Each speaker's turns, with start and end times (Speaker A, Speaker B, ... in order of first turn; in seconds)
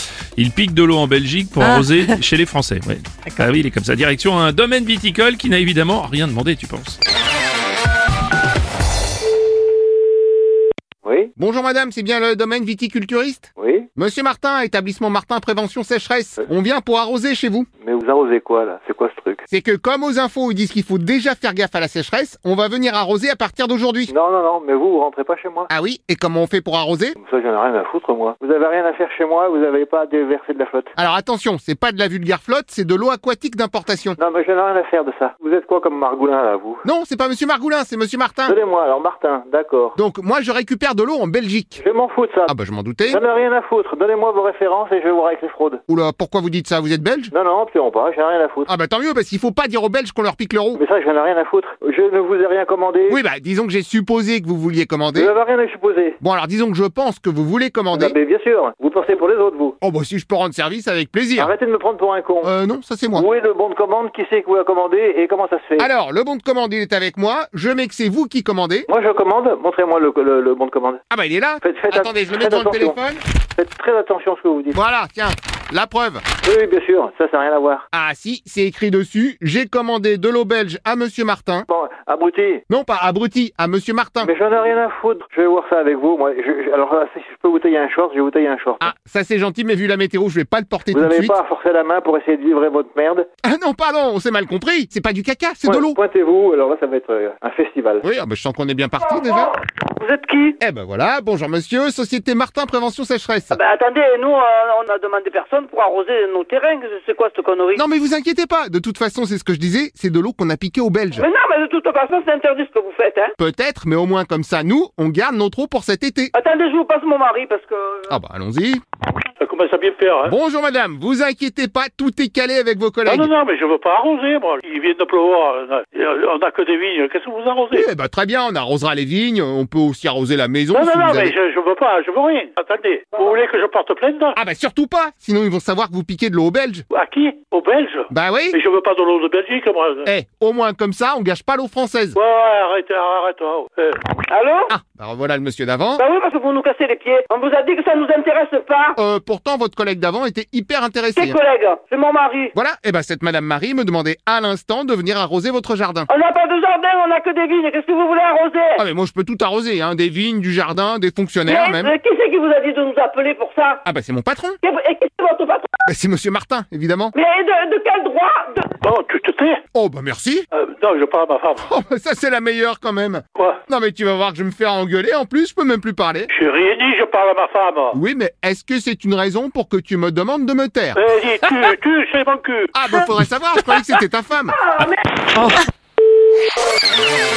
Speaker A: 0.4-7.0, 184.8-185.6
Speaker B: 11.0-11.3, 13.6-13.9, 17.8-19.4, 24.1-25.7, 27.2-30.9, 34.2-36.8, 38.5-40.0, 41.8-42.5, 43.1-45.8, 47.3-48.7, 50.7-53.2, 55.1-56.2, 57.9-59.8, 61.4-62.5, 63.1-65.9, 68.9-71.0, 71.6-73.0, 73.6-74.8, 76.4-77.9, 81.7-82.6, 84.2-88.9, 90.9-93.3, 95.7-98.0
Speaker C: 11.4-17.7, 19.5-24.1, 25.7-27.2, 31.0-34.2, 36.8-38.6, 40.0-41.8, 42.5-43.2, 45.9-47.3, 48.7-50.8, 53.1-55.3, 56.2-58.2, 59.8-61.5, 62.4-63.3, 65.8-68.9, 71.1-73.2, 74.7-76.2, 77.9-81.7, 82.7-84.3, 88.8-91.4, 93.4-96.0, 98.0-99.5, 100.6-103.6, 107.8-111.3, 113.4-116.3, 118.1-118.8, 120.3-123.3, 127.7-131.3, 134.3-136.8, 138.1-138.6, 140.1-142.2, 144.7-146.0, 148.9-151.4, 152.5-156.1, 158.8-161.9, 163.8-164.6, 165.8-167.2, 169.7-170.5, 171.6-176.3, 177.9-181.0, 182.7-184.6
Speaker D: 99.1-100.6, 103.5-107.8, 111.2-113.3, 116.3-118.1, 144.3-144.7, 146.0-149.0, 151.2-152.5, 156.1-158.8, 161.5-163.8, 164.6-165.8, 167.1-168.7
Speaker E: 119.4-120.4, 123.1-127.9, 130.7-134.4, 136.9-140.1, 142.1-144.0, 168.8-169.6, 170.5-171.7, 173.3-173.6, 176.3-178.0, 180.9-182.7